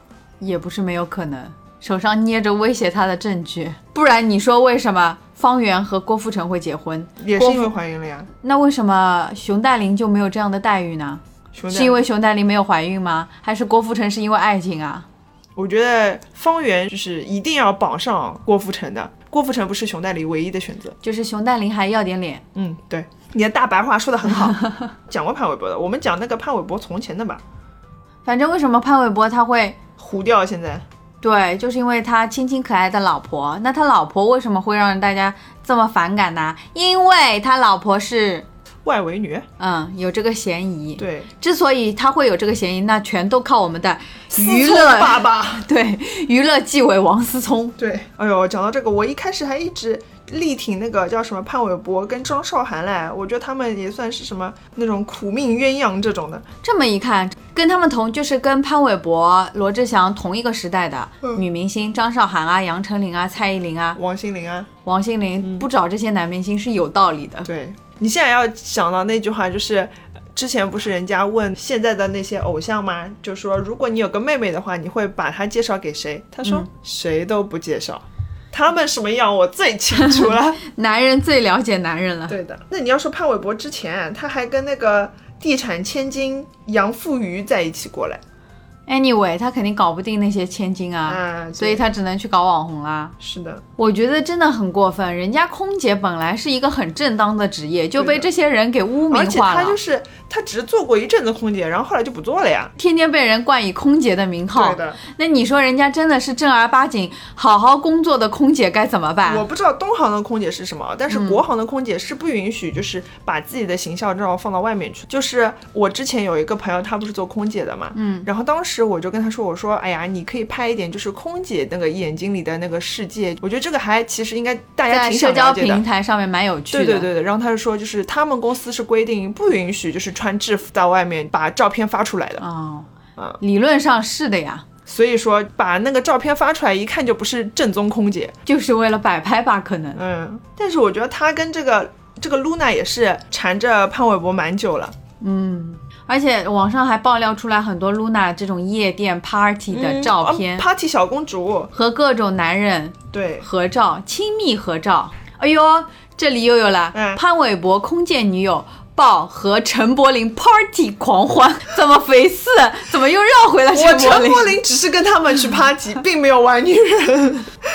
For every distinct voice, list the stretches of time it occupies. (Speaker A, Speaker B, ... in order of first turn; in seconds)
Speaker A: 0.4-7.7, 8.4-15.1, 21.0-22.4, 24.5-24.9, 28.2-29.8, 31.2-38.5, 39.6-47.8, 56.6-64.0, 64.8-67.5, 80.0-82.4, 88.9-93.1, 93.8-99.8, 102.8-109.5, 111.1-111.4, 118.0-118.3, 124.9-127.1, 132.4-132.9, 133.4-134.7, 138.5-140.0, 145.2-150.7, 151.7-164.6
Speaker B: 7.2-8.3, 11.6-12.0, 15.6-21.0, 22.6-27.4, 30.0-30.9, 38.9-39.5, 41.0-41.3, 44.3-45.6, 47.8-56.5, 64.0-64.7, 67.5-80.6, 82.3-88.2, 91.1-91.8, 93.2-93.6, 98.0-98.3, 99.1-102.7, 104.5-105.0, 109.3-125.8, 126.7-132.4, 134.9-138.3, 139.9-144.9, 149.7-151.7, 153.1-153.5, 156.9-157.2, 163.7-167.5